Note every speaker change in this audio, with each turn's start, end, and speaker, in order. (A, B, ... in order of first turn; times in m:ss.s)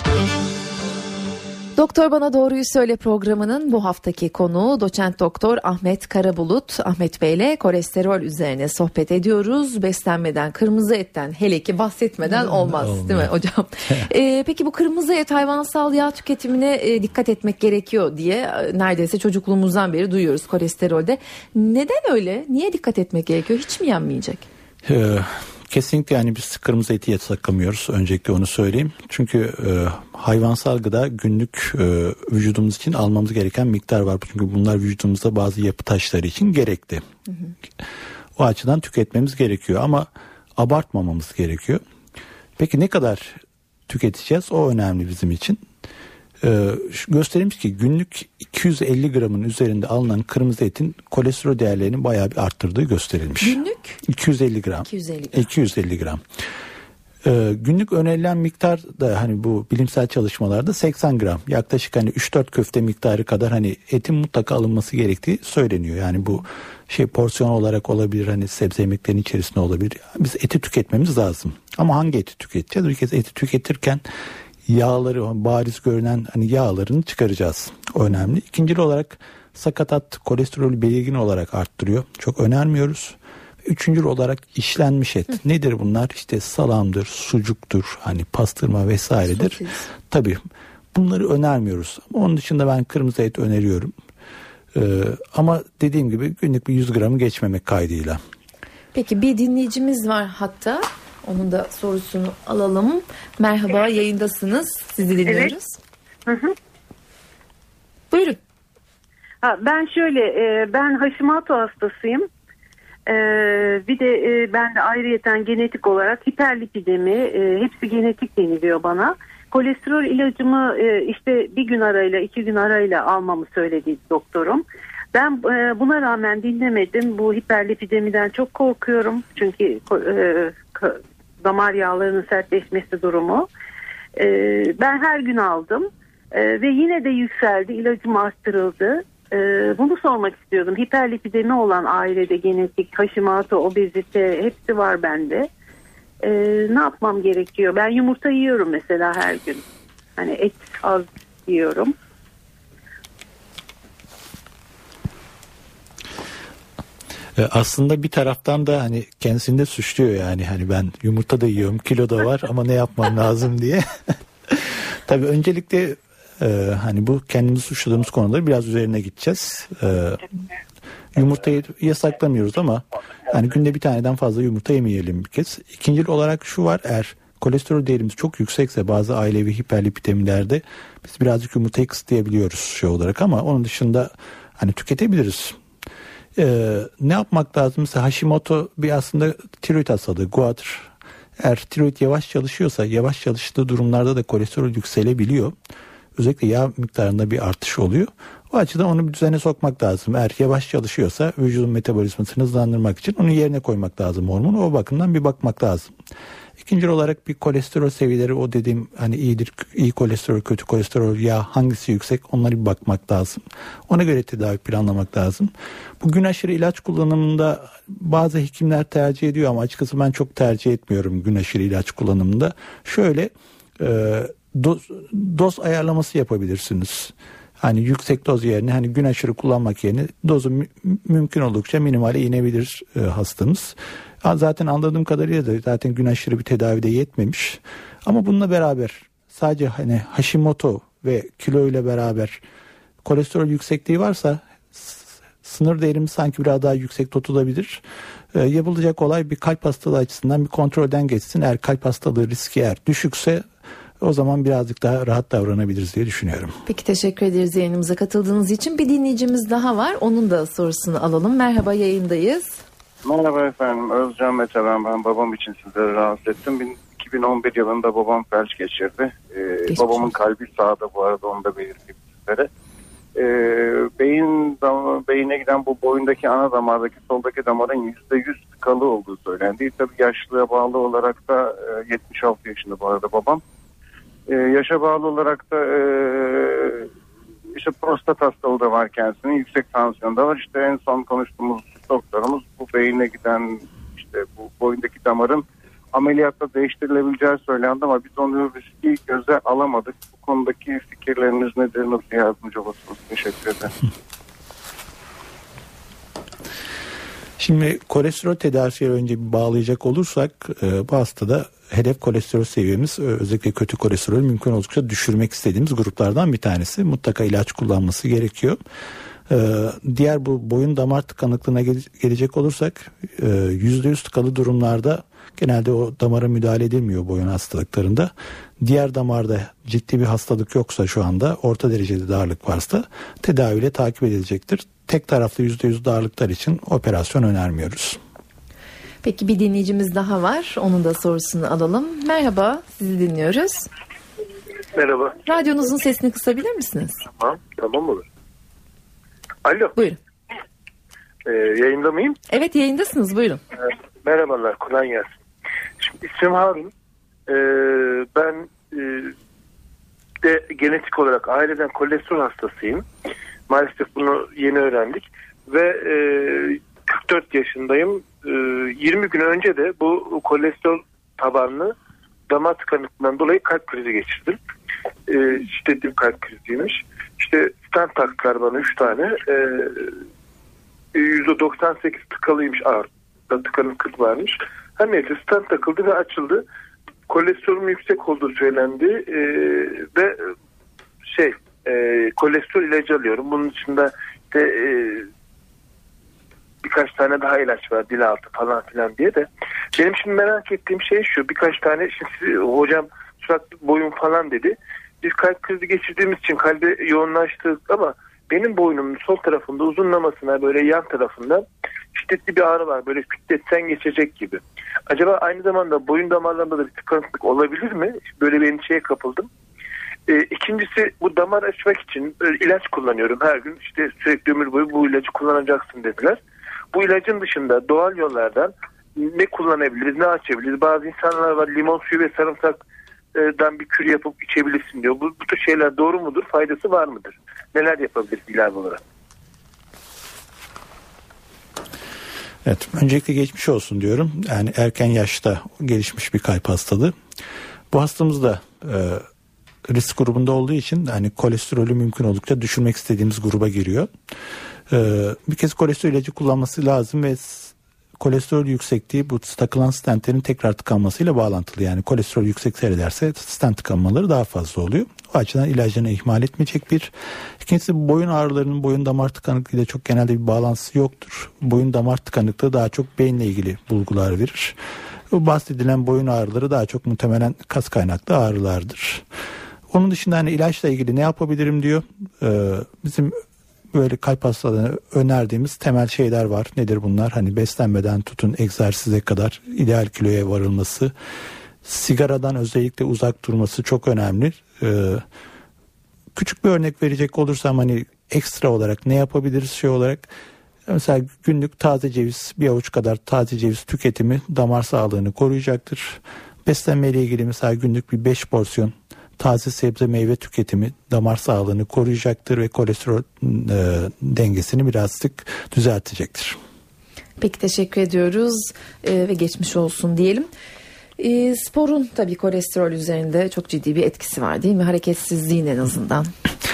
0:01.8-0:24.5 A
0:12.3-0:13.3 B
0:24.8-0:37.0 B
0:38.4-0:41.8 B
0:42.6-0:45.6 B
0:46.4-0:56.2 B
0:53.4-0:54.0 A
0:54.8-0:55.5 A
0:57.2-1:14.0 B
1:14.7-1:30.4 B
1:29.3-1:29.9 A
1:30.9-1:33.9 B
1:34.7-1:38.2 B
1:38.9-1:45.8 A
1:45.2-1:45.5 C
1:46.3-1:46.5 C
1:48.1-1:48.4 A
1:49.4-1:52.3 C
1:53.1-2:13.5 C
2:14.2-2:25.5 C
2:26.2-2:29.6 C
2:30.2-2:31.9 C
2:37.4-2:50.2 B
2:51.1-3:05.6 B
3:06.4-3:15.5 B
3:16.2-3:25.9 B
3:26.6-4:02.4 B
4:03.0-4:07.8 B
4:08.3-4:13.4 B
4:14.0-4:16.6 B
4:16.6-4:22.6 A
4:23.0-4:32.5 D
4:29.7-4:30.1 A
4:33.1-4:43.4 D
4:44.3-4:46.9 D
4:47.5-5:03.7 D
5:07.4-5:18.6 B
5:19.3-5:38.0 B
5:39.0-5:43.7 A
5:44.7-5:45.2 E
5:45.2-5:47.0 A
5:47.2-5:48.0 E
5:49.4-5:49.7 E
5:51.2-5:52.2 E
5:52.3-5:53.4 A
5:54.0-5:55.2 E
5:55.8-5:56.7 E
5:57.3-5:59.1 E
6:00.2-6:02.8 E
6:03.5-6:11.7 E
6:12.3-6:14.4 E
6:15.1-6:19.9 E
6:20.9-6:26.4 E
6:27.1-6:30.2 E
6:31.1-6:35.1 E
6:36.6-6:59.3 E
7:00.1-7:06.2 E
7:06.7-7:12.6 E
7:13.1-7:18.8 E
7:22.4-7:26.9 B
7:27.7-7:29.0 B
7:29.6-7:33.9 B
7:34.7-7:54.6 B
7:55.1-7:59.0 B
7:59.7-8:03.2 B
8:03.7-8:10.9 B
8:11.6-8:15.0 B
8:16.1-8:20.1 B
8:20.7-8:36.4 B
8:37.2-8:40.3 A
8:41.0-8:46.1 A